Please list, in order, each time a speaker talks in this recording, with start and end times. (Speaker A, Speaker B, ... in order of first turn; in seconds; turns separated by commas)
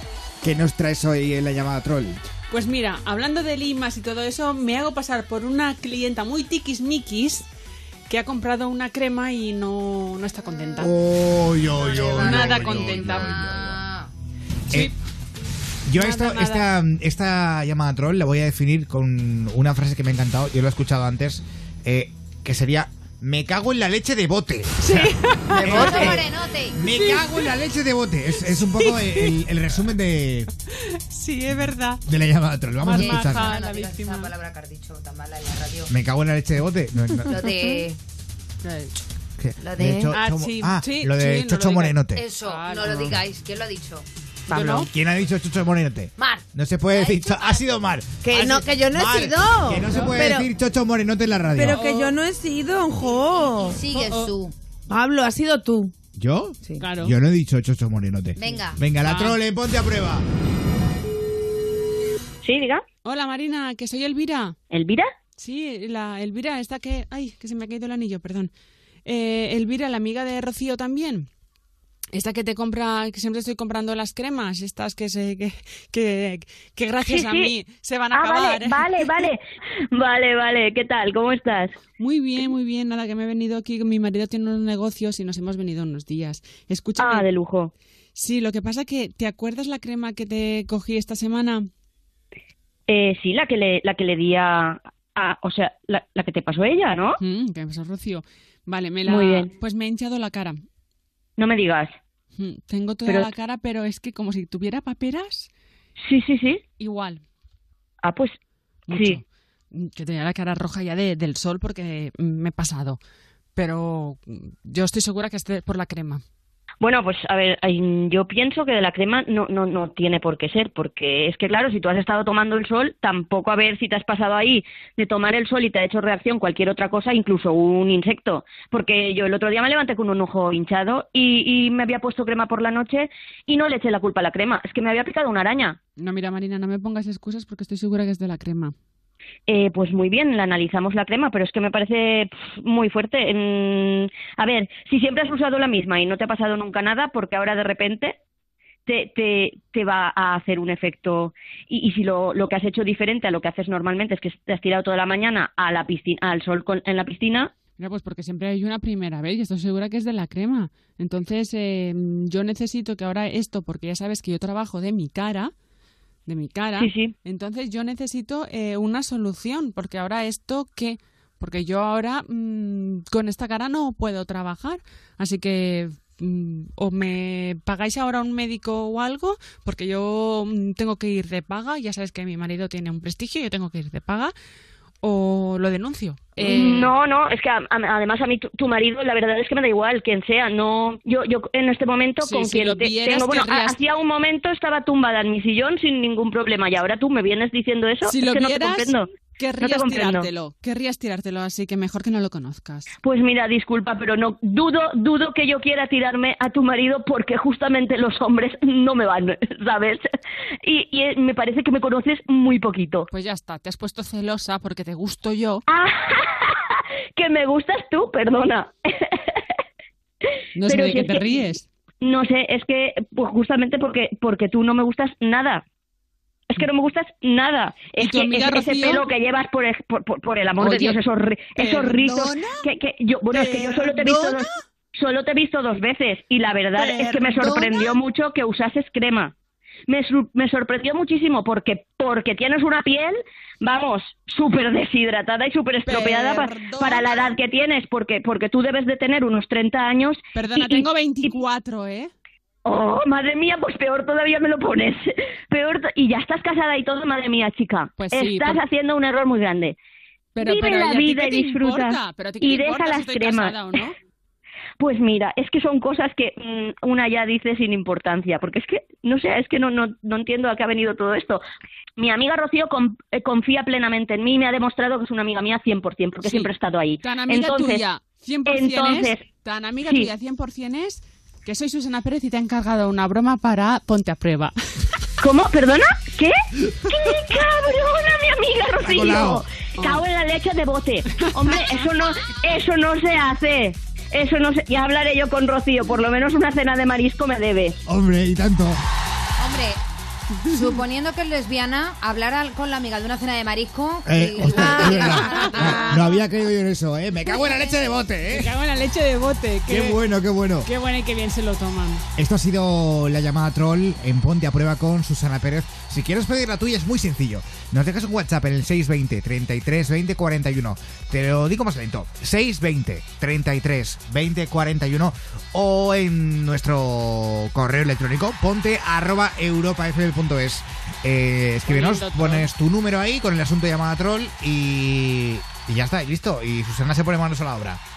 Speaker A: 0.4-2.2, Speaker B: 2.5-7.5, Speaker B: 8.1-10.9, Speaker A: 10.8-13.8, Speaker C: 11.7-14.1, Speaker B: 12.1-13.3, Speaker B: 14.7-14.9, Speaker A: 15.9-30.5, Speaker B: 15.9-16.7, Speaker B: 24.8-26.2, Speaker C: 25.6-26.8, Speaker B: 26.8-27.5, Speaker B: 28.4-29.4, Speaker B: 30.9-32.0, Speaker A: 32.0-33.5, Speaker B: 32.8-34.3, Speaker C: 32.9-35.9, Speaker A: 35.9-37.5, Speaker C: 37.2-38.0, Speaker B: 38.6-38.9, Speaker A: 39.4-42.2, Speaker C: 39.6-40.1, Speaker B: 40.1-43.2, Speaker C: 42.1-44.0, Speaker B: 44.5-44.9, Speaker A: 44.5-51.8, Speaker C: 46.2-47.6, Speaker D: 48.3-50.5, Speaker C: 49.1-49.7, Speaker B: 49.9-50.1, Speaker D: 51.5-53.8, Speaker B: 51.6-52.2, Speaker C: 53.1-54.5, Speaker B: 53.9-54.3, Speaker D: 54.9-55.9, Speaker A: 56.1-60.2, Speaker B: 56.8-57.1, Speaker C: 58.4-58.8, Speaker B: 59.0-59.4, Speaker E: 62.4-62.8, Speaker B: 63.0-64.5, Speaker E: 64.7-65.1, Speaker B: 65.4-68.5, Speaker B: 69.0-71.3, Speaker B: 72.1-79.3, Speaker E: 77.0-77.5, Speaker E: 78.1-79.4, Speaker E: 79.9-81.8, Speaker B: 82.0-87.3, Speaker E: 87.0-87.7, Speaker B: 88.1-91.7, Speaker E: 92.9-97.2, Speaker B: 97.2-100.6, Speaker E: 99.0-99.5, Speaker E: 101.4-101.9, Speaker B: 102.4-105.5, Speaker E: 106.0-106.6, Speaker B: 106.8-107.2, Speaker E: 108.0-108.3, Speaker B: 108.9-113.0, Speaker E: 108.9-109.2, Speaker B: 113.5-116.2, Speaker E: 116.8-135.8, Speaker B: 136.0-138.7, Speaker E: 139.5-148.2, Speaker E: 148.8-157.5, Speaker B: 157.8-165.5, Speaker B: 166.2-184.3, Speaker E: 166.8-167.1, Speaker B: 185.0-186.9, Speaker E: 186.4-200.3, Speaker B: 192.2-193.8, Speaker B: 198.0-202.9, Speaker E: 203.0-210.1, Speaker E: 210.6-213.1, Speaker B: 213.1-215.6, Speaker E: 215.7-219.4, Speaker B: 220.5-221.7, Speaker E: 220.6-221.4, Speaker E: 222.0-225.6, Speaker E: 226.5-239.3, Speaker B: 228.0-229.1, Speaker B: 230.6-231.0, Speaker B: 231.6-232.7, Speaker B: 233.3-234.5, Speaker B: 236.7-238.0, Speaker E: 239.9-251.3, Speaker B: 245.8-247.3, Speaker B: 250.3-252.1, Speaker E: 252.6-259.8, Speaker B: 258.0-258.6, Speaker B: 260.3-263.9, Speaker E: 260.4-263.8, Speaker E: 264.8-271.4, Speaker E: 272.0-277.8, Speaker B: 276.2-284.5, Speaker E: 278.4-279.3, Speaker E: 279.8-280.1, Speaker E: 285.2-297.8, Speaker A: 288.8-289.4, Speaker B: 289.8-290.0, Speaker B: 291.4-291.8, Speaker A: 297.9-298.8, Speaker C: 299.4-299.8, Speaker C: 300.4-306.1, Speaker A: 304.1-308.5, Speaker B: 304.8-305.8, Speaker C: 307.4-307.7, Speaker B: 308.3-310.0, Speaker A: 309.7-310.7, Speaker B: 310.6-312.1, Speaker A: 312.1-337.8, Speaker B: 331.6-332.5